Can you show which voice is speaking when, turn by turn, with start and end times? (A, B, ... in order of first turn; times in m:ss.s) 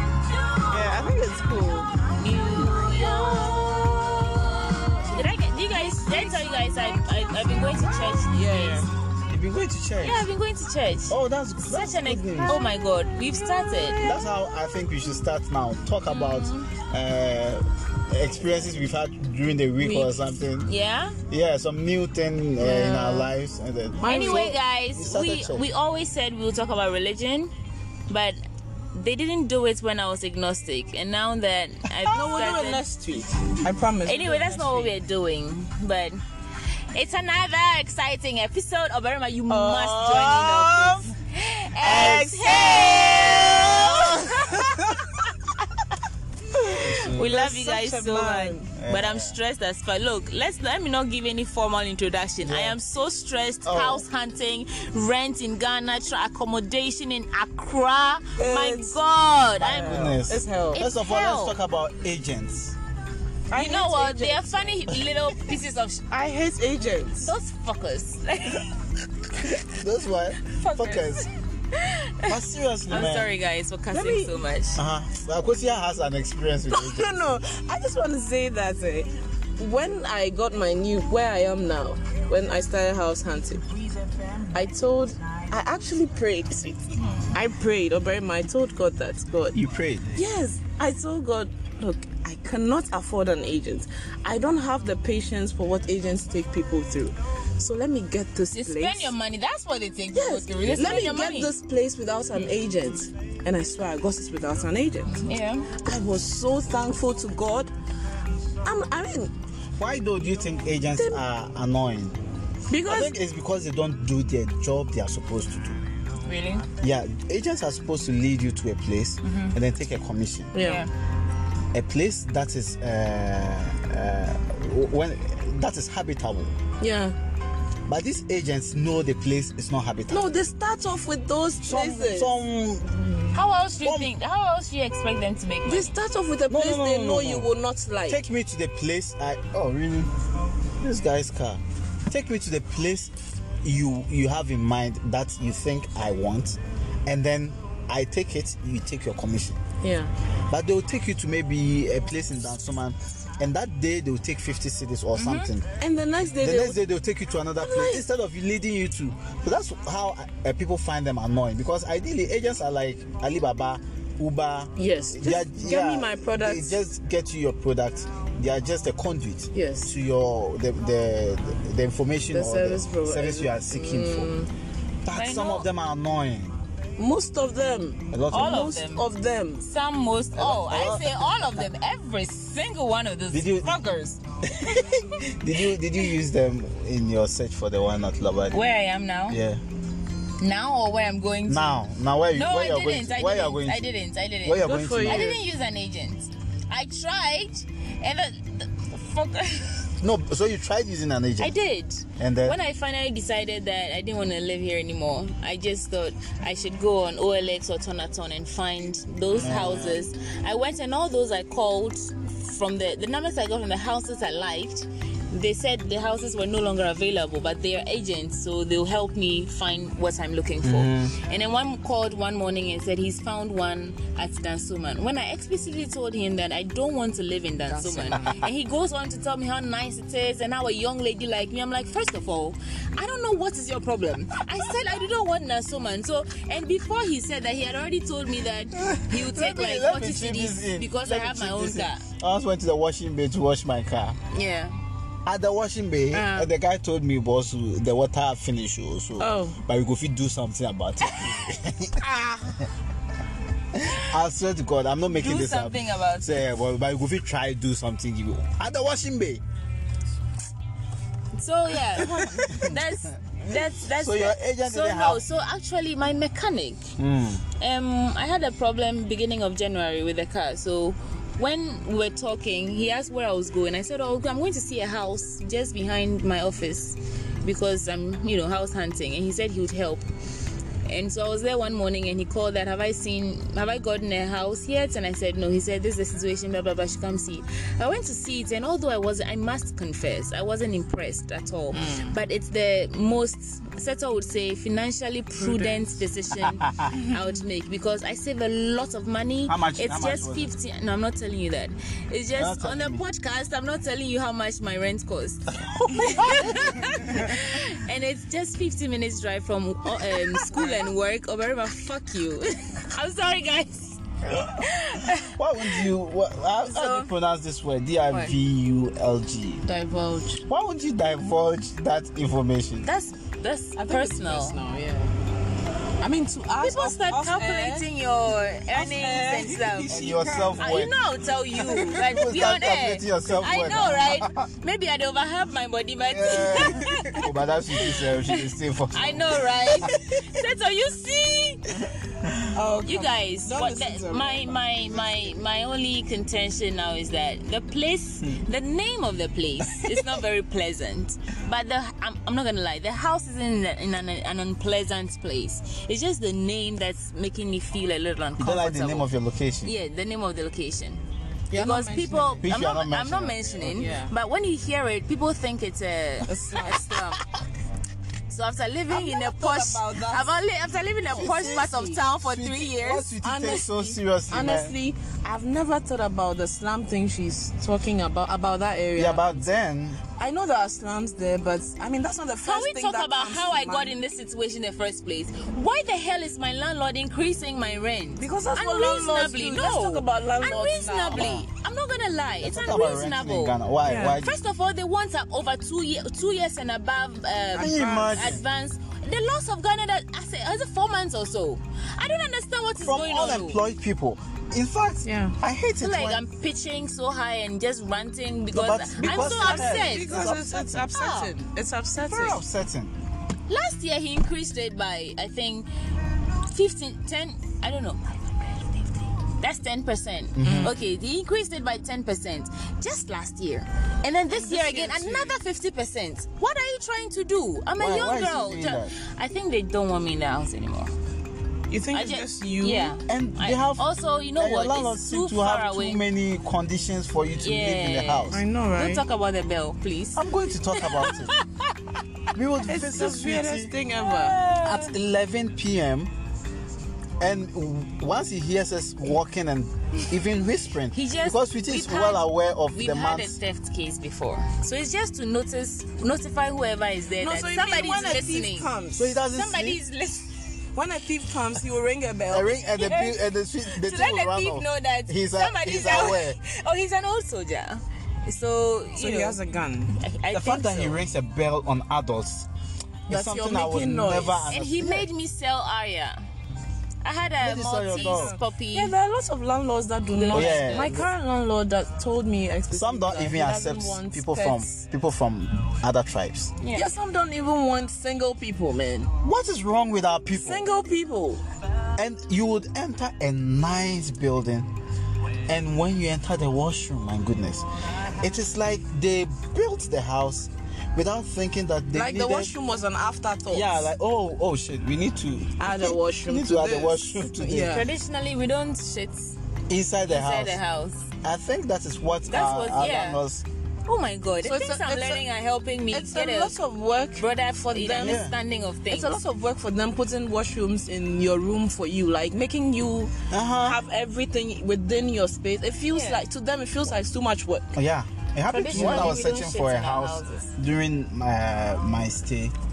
0:00.3-0:01.0 A
0:00.7-0:01.9 B
0:02.2-0:08.9 A
0:08.3-0:08.9 B
0:09.3-0:10.3 C
0:10.0-0:14.1 A
0:11.1-0:12.6 C
0:14.0-0:20.7 C
0:16.1-0:16.8 A
0:19.8-0:20.2 B
0:20.6-0:21.2 A
0:21.3-0:25.7 C
0:22.6-0:23.3 B
0:24.0-0:24.6 B
0:24.1-0:27.5 A
0:28.1-0:28.4 A
0:28.9-0:32.8 A
0:32.1-0:35.0 B
0:34.0-0:36.2 A
0:36.9-0:45.0 A
0:39.5-0:41.1 B
0:41.8-0:44.0 B
0:41.8-0:42.2 C
0:43.6-0:45.1 C
0:46.5-0:48.7 B
0:46.7-0:47.4 C
0:46.7-1:00.2 A
0:48.8-0:49.4 C
0:52.4-0:52.8 C
0:53.6-0:54.0 C
0:58.4-0:59.0 B
0:59.6-1:02.8 C
0:59.6-1:00.8 B
1:00.7-1:01.6 A
1:03.5-1:04.8 B
1:03.5-1:06.1 A
1:06.1-1:07.3 B
1:07.2-1:08.8 A
1:09.4-1:11.3 C
1:10.4-1:12.4 A
1:12.3-1:13.3 C
1:12.9-1:14.8 A
1:13.9-1:14.4 B
1:14.8-1:17.3 C
1:16.7-1:29.6 B
1:29.5-1:30.2 C
1:30.1-1:39.1 B
1:38.5-1:41.5 A
1:40.1-1:45.2 B
1:45.2-1:45.7 A
1:45.8-1:47.7 B
1:48.6-1:49.3 B
1:49.8-1:52.2 C
1:50.9-1:51.2 B
1:52.7-1:53.1 B
1:52.9-1:55.8 C
1:56.2-1:56.7 A
1:56.8-2:00.5 C
1:59.2-1:59.6 A
2:00.5-2:00.9 B
2:00.6-2:00.9 A
2:01.7-2:06.5 C
2:06.8-2:07.2 B
2:07.9-2:10.3 C
2:10.1-2:12.3 B
2:11.6-2:14.1 C
2:13.3-2:15.9 A
2:15.6-2:18.2 B
2:16.5-2:17.5 C
2:18.1-2:20.1 C
2:20.8-2:23.1 C
2:23.6-2:29.6 C
2:29.8-2:30.1 B
2:30.5-2:35.7 C
2:35.1-2:35.5 A
2:35.8-2:36.8 B
2:36.4-2:54.3 C
2:37.6-2:38.0 B
2:44.8-2:46.8 B
2:49.5-2:49.9 B
2:52.3-2:54.5 B
2:55.0-2:56.6 C
2:55.1-2:55.7 A
2:57.0-2:59.7 B
2:58.1-2:58.7 C
2:58.3-2:59.1 A
2:59.6-3:04.2 A
3:00.4-3:01.6 C
3:00.4-3:01.1 B
3:03.3-3:03.8 C
3:04.5-3:08.6 C
3:08.5-3:09.4 A
3:09.3-3:09.6 C
3:10.4-3:19.9 A
3:11.5-3:13.9 C
3:14.4-3:15.4 C
3:14.6-3:15.4 B
3:20.0-3:21.6 C
3:21.4-4:02.1 A
3:22.2-3:22.6 C
3:29.4-3:30.1 C
3:40.6-3:41.2 C
3:47.7-3:48.4 B
3:58.9-4:04.2 C
4:04.3-4:04.8 A
4:05.2-4:12.0 C
4:06.1-4:06.5 A
4:09.2-4:09.6 B
4:11.0-4:12.7 A
4:13.8-4:19.4 C
4:15.1-4:16.5 A
4:21.3-4:26.9 A
4:22.0-4:25.2 C
4:27.0-4:27.4 C
4:27.6-4:40.1 A
4:40.9-5:14.0 A
4:51.7-4:52.2 B
4:55.4-4:56.0 B
4:59.5-5:00.5 C
5:02.3-5:03.0 C
5:05.6-5:07.2 C
5:14.6-5:15.9 A
5:15.2-5:19.6 C
5:16.7-5:17.1 A
5:19.6-5:20.4 B
5:20.5-5:22.9 C
5:22.8-5:24.6 A
5:23.8-5:25.1 B
5:26.0-5:27.9 B
5:26.6-5:30.0 A
5:28.7-5:30.7 B
5:29.9-5:30.9 C
5:30.6-5:37.3 A
5:31.6-5:34.5 C
5:36.1-5:40.0 C
5:37.8-5:41.6 A
5:42.0-5:42.4 C
5:42.5-5:44.5 B
5:42.8-5:59.1 A
5:49.7-5:50.0 C
5:58.4-5:59.7 C
5:59.6-6:07.2 A
6:01.5-6:02.5 B
6:02.4-6:03.9 C
6:03.6-6:04.1 B
6:06.2-6:07.1 B
6:08.3-6:13.1 A
6:08.9-6:10.4 B
6:11.1-6:14.8 C
6:11.5-6:12.0 B
6:13.2-6:19.5 B
6:19.0-6:20.0 C
6:20.2-6:24.0 B
6:22.4-6:43.6 A
6:28.2-6:31.4 B
6:31.1-6:31.5 C
6:32.4-6:34.4 C
6:33.8-6:34.2 B
6:37.5-6:38.2 B
6:37.6-6:38.4 C
6:42.8-6:46.2 C
6:45.0-6:45.4 B
6:45.8-6:50.3 A
6:48.5-6:50.9 C
6:49.0-6:52.4 B
6:50.8-6:51.3 A
6:52.0-6:52.9 C
6:53.5-6:55.7 A
6:56.5-7:10.9 A
7:00.4-7:00.8 C
7:00.4-7:00.8 B
7:04.3-7:05.3 B
7:07.8-7:08.9 C
7:11.7-7:13.0 B
7:11.9-7:16.0 A
7:13.1-7:18.4 C
7:17.4-7:21.4 A
7:18.3-7:19.0 B
7:20.2-7:21.3 C
7:22.3-7:23.8 C
7:22.7-7:24.4 B
7:24.3-7:24.9 A
7:24.4-7:26.1 C
7:27.2-7:33.4 C
7:30.9-7:38.7 A
7:37.2-7:39.2 B
7:38.9-7:39.8 C
7:39.3-7:40.6 A
7:40.7-7:42.6 B
7:42.3-7:46.4 C
7:42.8-7:49.4 A
7:49.0-7:50.0 B
7:50.0-7:51.0 A
7:50.3-7:52.5 C
7:53.1-7:55.1 C
7:53.1-7:54.5 B
7:54.5-7:56.2 A
7:57.0-7:58.9 A
7:57.4-7:58.4 C
7:57.9-8:04.8 B
8:00.1-8:01.0 A
8:00.3-8:01.0 C
8:02.7-8:06.5 C
8:06.6-8:06.9 A
8:06.7-8:09.1 B
8:09.2-8:10.7 C
8:10.3-8:11.4 B
8:12.0-8:14.7 C
8:15.5-8:22.5 C
8:21.9-8:23.9 B
8:23.5-8:27.8 C
8:25.6-8:27.9 B
8:27.6-8:29.4 A
8:29.7-8:30.6 C
8:30.1-8:31.1 A
8:31.2-8:33.4 C
8:32.2-8:33.2 A
8:33.9-8:36.6 A
8:34.4-8:35.2 B
8:35.9-8:38.2 B
8:37.2-8:39.2 A
8:38.0-8:38.3 C
8:38.9-8:47.8 B
8:43.3-8:43.8 C
8:45.9-8:46.2 A
8:47.7-8:52.6 C
8:48.5-8:50.6 A
8:48.7-8:49.1 B